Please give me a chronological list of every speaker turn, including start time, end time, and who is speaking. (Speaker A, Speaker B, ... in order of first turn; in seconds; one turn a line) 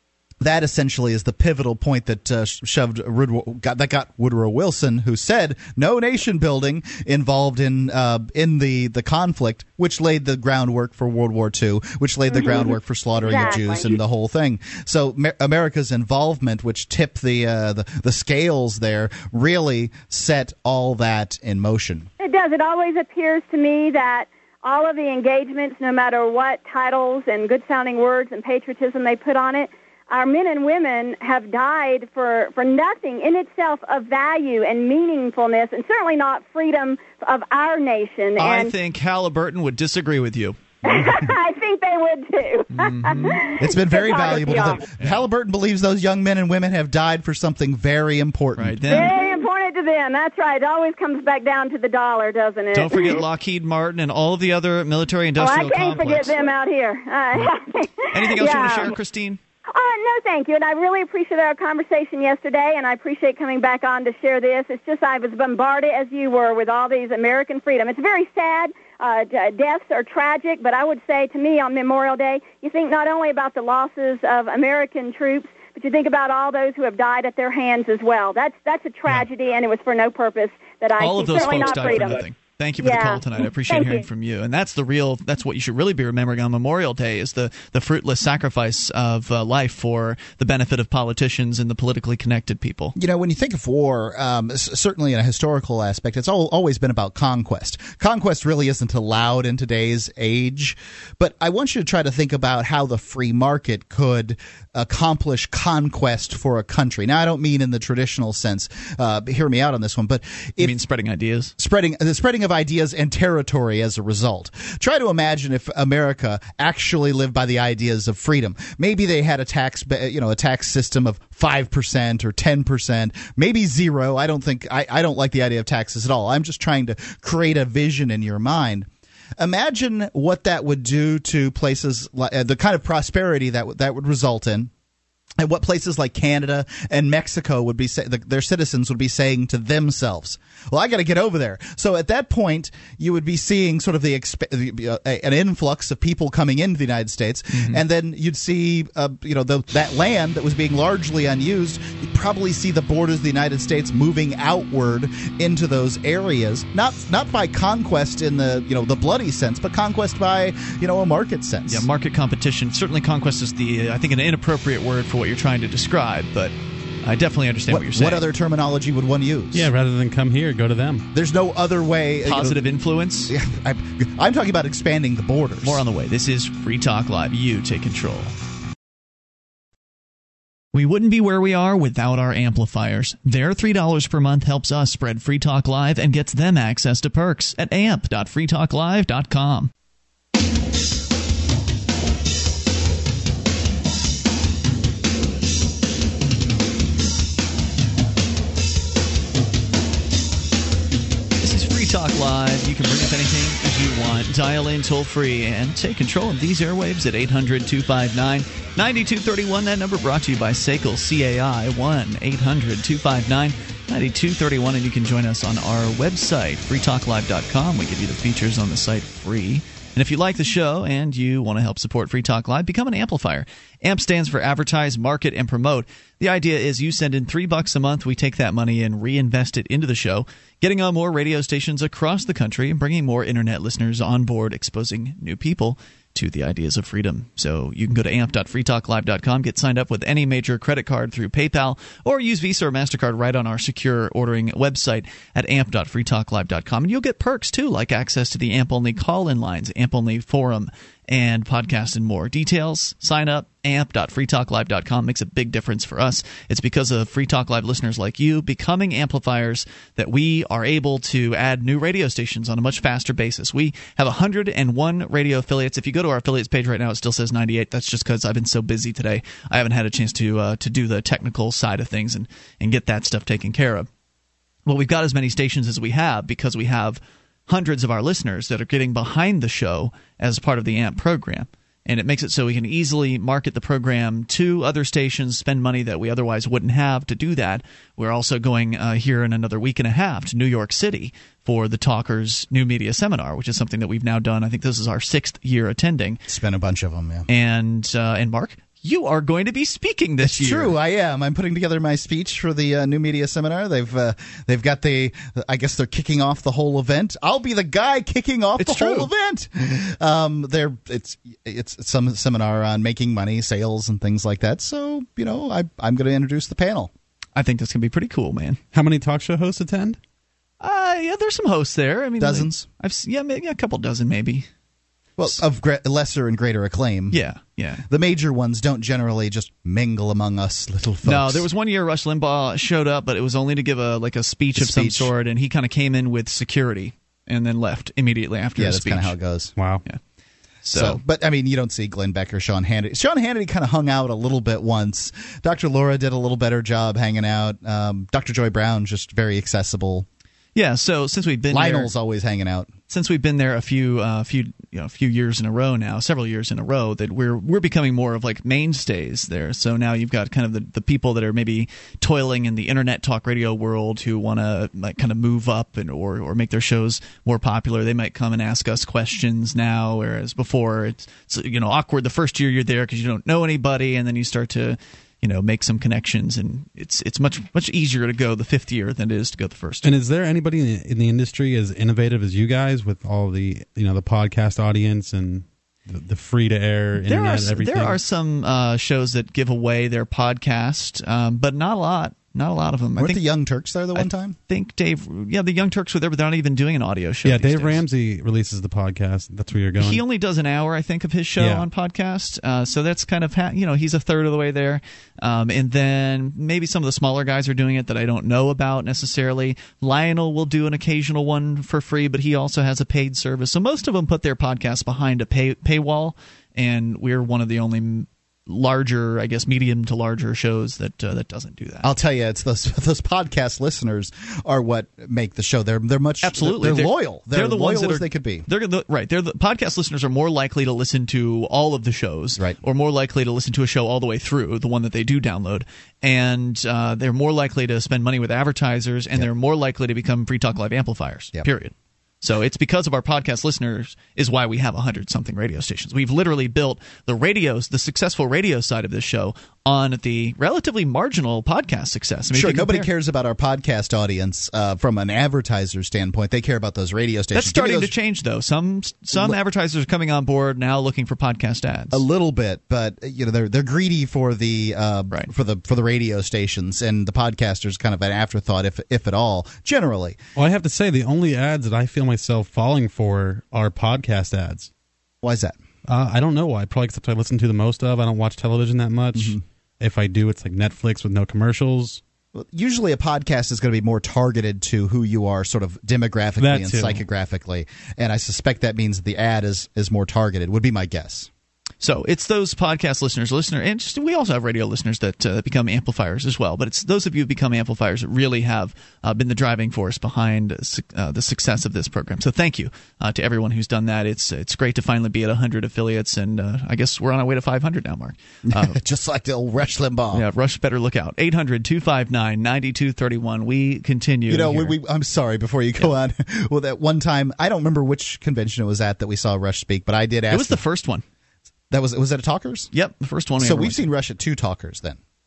Speaker A: 0.4-22.1
Speaker B: 12.3-14.0
Speaker B: 22.2-38.7
Speaker C: 38.4-40.6
Speaker B: 40.8-44.8
Speaker C: 42.7-43.4
Speaker A: 43.6-49.0
Speaker C: 48.5-49.1
Speaker B: 48.9-53.2
Speaker C: 52.7-56.5
Speaker B: 55.4-59.0
Speaker C: 58.1-59.4
Speaker B: 59.7-82.3
Speaker C: 81.0-92.9
Speaker B: 82.8-84.0
Speaker A: 92.9-110.7
Speaker C: 110.6-111.5
Speaker A: 111.6-128.9
Speaker A: 129.4-134.7
Speaker A: 135.4-161.9
Speaker C: 147.5-147.8
Speaker C: 161.6-168.2
Speaker A: 167.7-169.7
Speaker D: 169.5-171.1
Speaker A: 171.1-172.6
Speaker C: 172.2-173.3
Speaker A: 173.3-175.8
Speaker C: 175.6-178.3
Speaker C: 180.7-189.7
Speaker C: 201.4-273.9
Speaker C: 274.6-296.2
Speaker A: 296.3-297.2
Speaker C: 297.3-300.7
Speaker A: 300.2-316.9
Speaker C: 308.6-309.1
Speaker C: 317.4-318.6
Speaker D: 318.7-320.0
Speaker C: 320.6-324.5
Speaker A: 322.2-322.7
Speaker A: 325.2-327.2
Speaker C: 327.1-327.8
Speaker A: 327.9-331.4
Speaker C: 331.0-339.1
Speaker A: 334.6-335.1
Speaker A: 338.6-339.5
Speaker D: 339.6-339.8
Speaker C: 340.6-341.0
Speaker A: 340.7-350.1
Speaker C: 350.5-351.9
Speaker A: 351.5-352.7
Speaker C: 352.9-379.9
Speaker D: 379.8-388.0
Speaker C: 387.0-393.2
Speaker A: 393.0-394.3
Speaker C: 393.9-397.8
Speaker D: 397.2-400.0
Speaker C: 399.8-421.9
Speaker D: 401.4-401.7
Speaker A: 421.8-428.4
Speaker C: 426.2-452.9
Speaker A: 452.3-457.9
Speaker C: 457.3-462.0
Speaker A: 461.9-470.2
Speaker D: 470.4-474.7
Speaker A: 475.2-475.6
Speaker D: 475.9-482.0
Speaker A: 479.1-479.4
Speaker A: 482.3-491.3
Speaker D: 486.4-487.0
Speaker C: 491.8-508.8
Speaker A: 508.5-510.2
Speaker C: 510.1-514.8
Speaker A: 514.3-520.6
Speaker C: 520.3-521.0
Speaker A: 521.7-522.7
Speaker C: 522.7-523.9
Speaker A: 523.4-525.0